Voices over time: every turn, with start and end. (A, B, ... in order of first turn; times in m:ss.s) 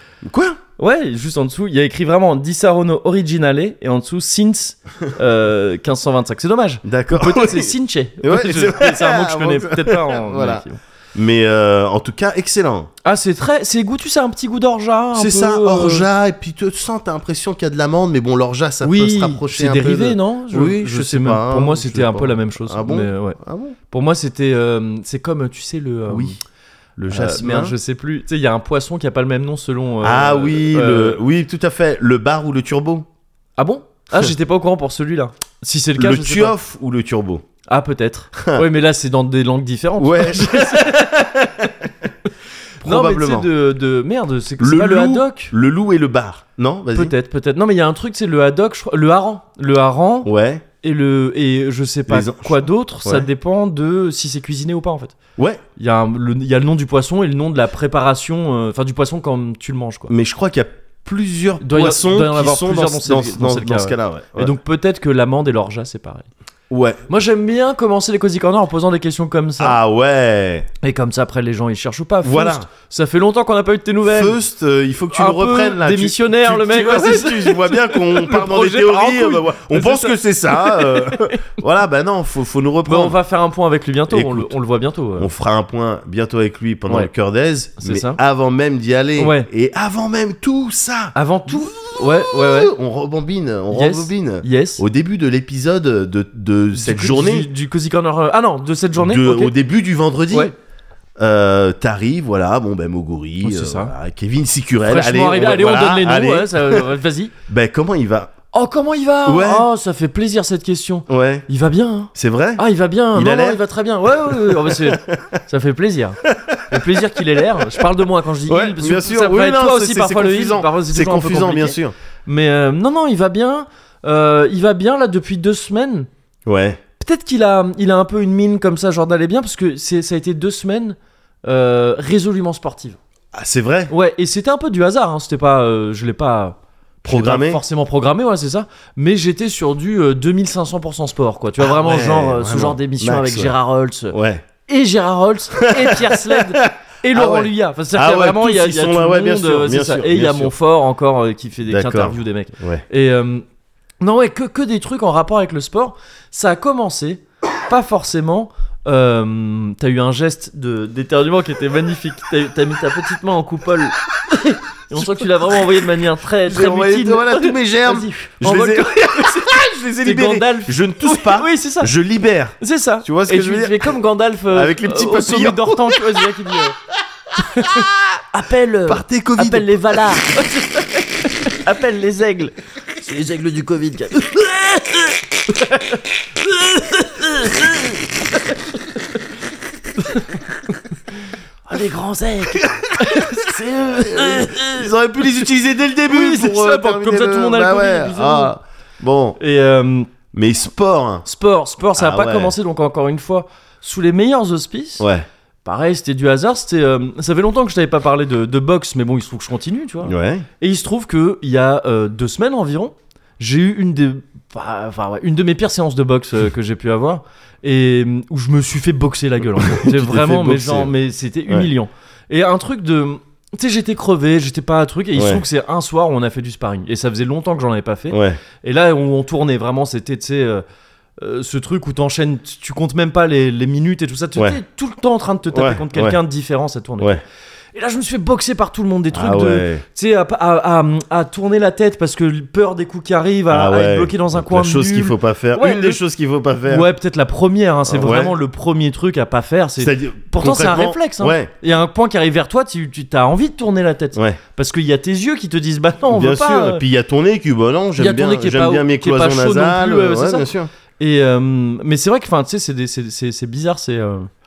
0:00.2-0:00.6 A
0:00.8-0:10.8 B
0:06.8-0:12.9 A
0:13.0-0:16.1 B
0:15.1-0:23.8 A
0:18.8-0:23.4 B
0:23.9-0:26.4 B
0:26.1-0:26.4 A
0:27.0-0:27.7 A
0:27.1-0:31.2 B
0:30.0-0:33.0 A
0:33.6-0:36.5 B
0:36.0-0:37.4 A
0:37.7-0:41.1 B
0:38.4-0:38.7 A
0:40.0-0:42.1 A
0:42.8-0:43.5 A
0:42.8-0:45.5 B
0:44.6-0:47.1 A
0:46.9-0:55.1 B
0:50.2-0:50.6 A
0:52.1-0:53.3 A
0:55.4-0:55.6 A
0:55.8-1:00.1 B
1:00.1-1:04.5 A
1:01.6-1:06.3 B
1:06.7-1:07.0 A
1:07.1-1:09.8 B
1:09.6-1:10.7 A
1:10.8-1:14.4 B
1:12.2-1:12.7 A
1:14.0-1:23.2 A
1:15.1-1:21.5 B
1:22.8-1:25.3 B
1:24.1-1:24.5 A
1:25.2-1:37.5 A
1:27.8-1:28.2 B
1:29.2-1:29.5 B
1:31.1-1:32.7 B
1:33.7-1:34.8 B
1:36.8-1:39.5 B
1:39.0-1:40.5 A
1:41.2-1:46.8 A
1:43.4-1:43.9 B
1:44.8-1:47.3 B
1:47.5-1:48.3 A
1:48.5-2:06.1 B
1:49.2-1:49.7 A
1:51.1-1:51.4 A
1:52.1-1:55.4 A
1:56.2-1:57.2 A
1:58.5-2:01.9 A
2:06.5-2:06.8 A
2:07.0-2:13.0 B
2:13.3-2:13.9 A
2:13.9-2:33.4 B
2:17.0-2:17.6 A
2:21.6-2:23.5 A
2:24.1-2:24.5 A
2:25.6-2:30.5 A
2:31.7-2:32.8 A
2:34.0-2:51.9 B
2:44.9-2:45.2 A
2:46.4-2:53.9 A
2:52.6-2:56.8 B
2:54.5-2:56.5 A
2:57.4-3:08.0 B
2:57.6-2:58.2 A
2:58.9-3:00.0 A
3:10.0-3:10.4 B
3:11.7-3:14.9 B
3:12.5-3:19.4 A
3:16.1-3:18.5 B
3:19.4-3:20.1 B
3:20.3-3:21.2 A
3:21.2-3:25.1 B
3:21.9-3:22.5 A
3:25.0-3:25.2 A
3:25.6-3:50.6 B
3:30.0-3:30.5 A
3:39.5-3:40.9 A
3:45.2-3:45.4 A
3:48.1-3:48.4 A
3:51.2-3:57.2 B
3:55.5-3:56.2 A
3:57.7-4:06.0 B
3:59.1-3:59.8 A
4:03.5-4:06.9 A
4:06.7-4:16.8 B
4:07.9-4:08.3 A
4:09.8-4:11.5 A
4:16.1-4:20.7 A
4:18.0-4:24.3 B